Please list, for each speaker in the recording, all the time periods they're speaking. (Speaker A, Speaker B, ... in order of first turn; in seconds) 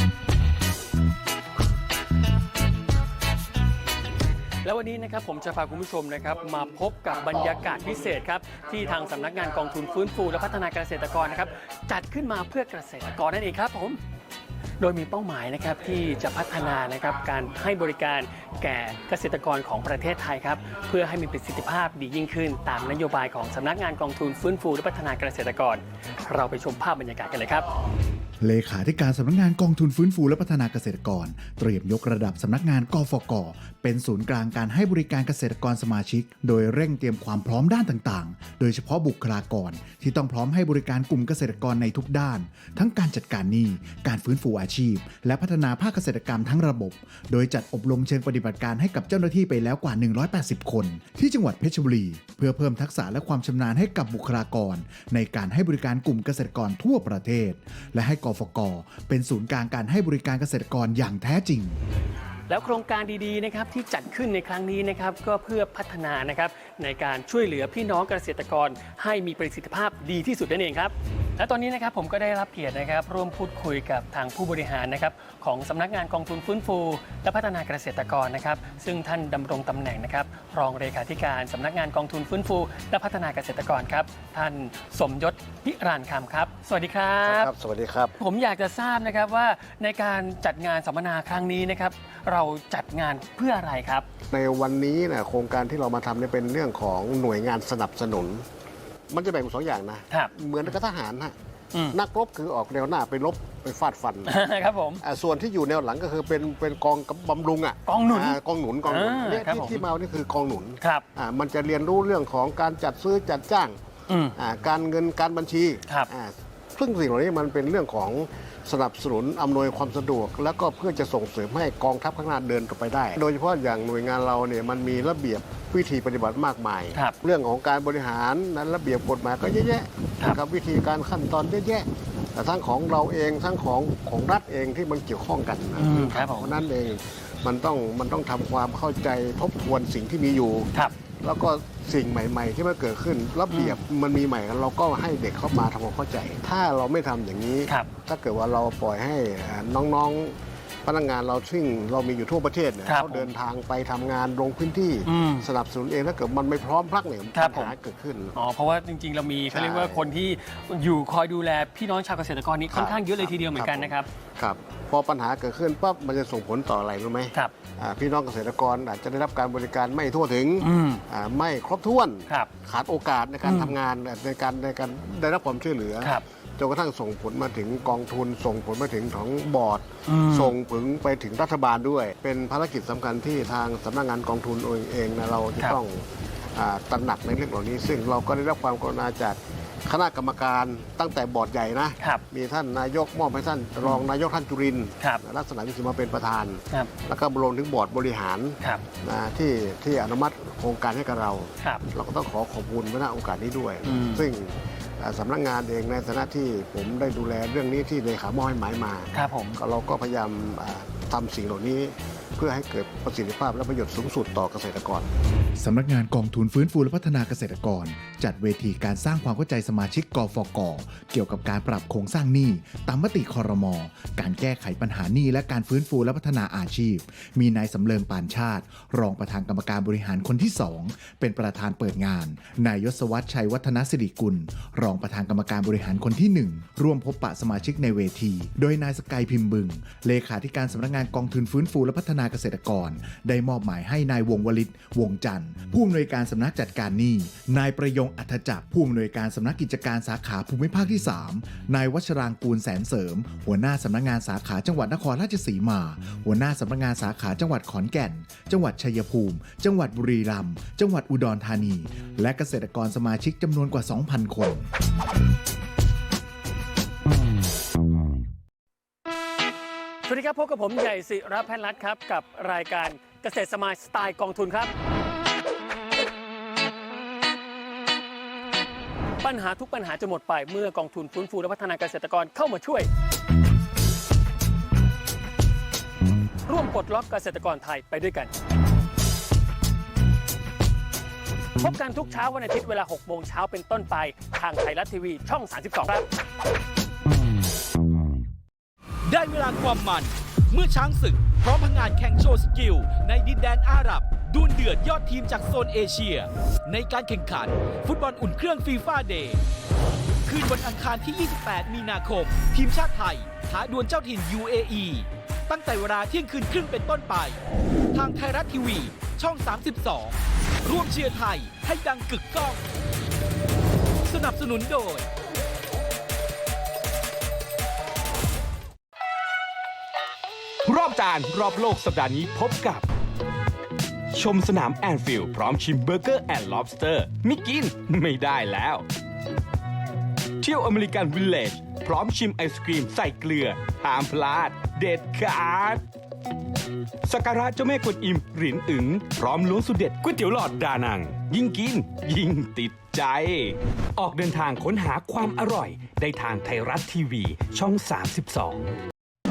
Speaker A: 4.6-14.0, 14.8-27.7, 62.5-87.5, 88.2-94.1, 104.2-105.0, 107.9-109.8, 114.1-114.3, 135.8-136.5, 143.5-143.8, 152.9-153.3, 155.1-155.5, 157.3-157.7, 158.3-164.1, 170.6-171.0, 173.5-173.7, 180.1-180.5, 203.8-204.3, 209.1-209.6, 270.1-274.7, 279.2-282.9, 286.5-288.3, 291.6-296.1
Speaker B: 28.4-61.8, 215.6-264.7
Speaker C: 87.3-88.1, 94.3-98.5, 99.1-101.3, 101.9-104.4, 105.0-113.8, 114.4-140.7, 141.2-158.3, 159.5-160.2, 162.7-186.0, 186.6-215.1
Speaker D: 299.1-309.4, 310.3-317.4, 317.9-322.6, 324.1-325.1
Speaker E: 330.6-332.9, 334.1-338.8, 340.4-345.8, 347.1-358.6